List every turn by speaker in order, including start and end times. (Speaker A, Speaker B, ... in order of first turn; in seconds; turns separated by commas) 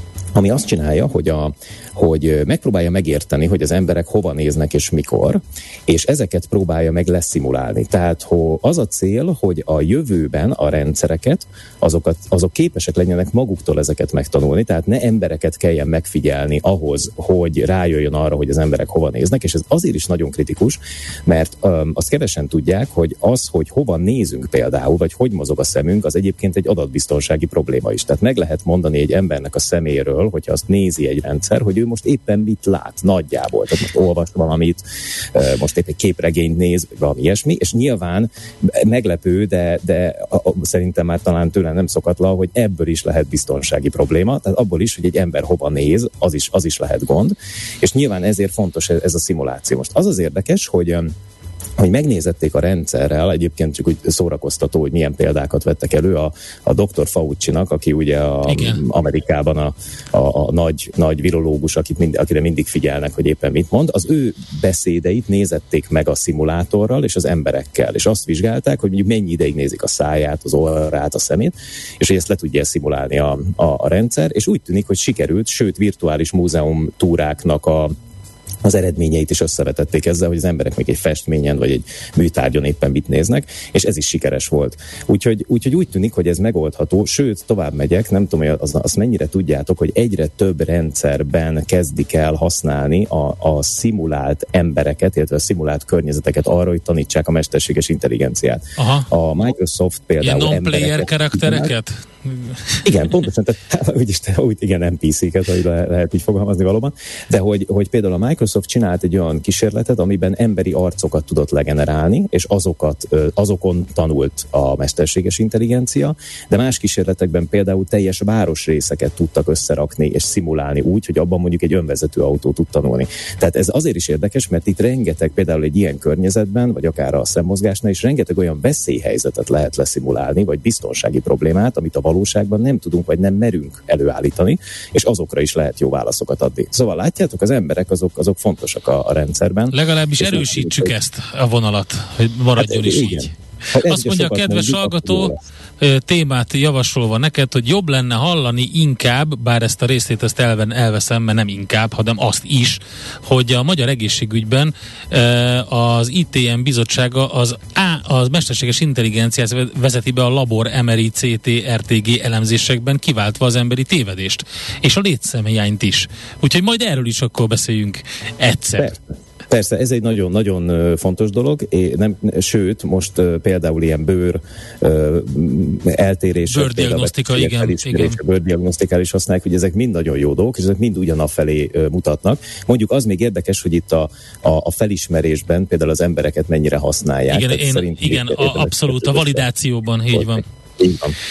Speaker A: 0.3-34.8, Speaker A: 35.3-51.1, Speaker A: 51.8-77.9, Speaker B: 58.5-58.8, Speaker A: 78.6-101.7, Speaker B: 98.8-99.0, Speaker B: 100.2-102.8, Speaker A: 102.8-140.9, Speaker B: 139.7-143.3, Speaker A: 142.6-145.4, Speaker B: 143.9-168.9, Speaker A: 168.8-189.4, Speaker B: 176.5-178.2, Speaker B: 187.3-190.4, Speaker A: 190.1-191.2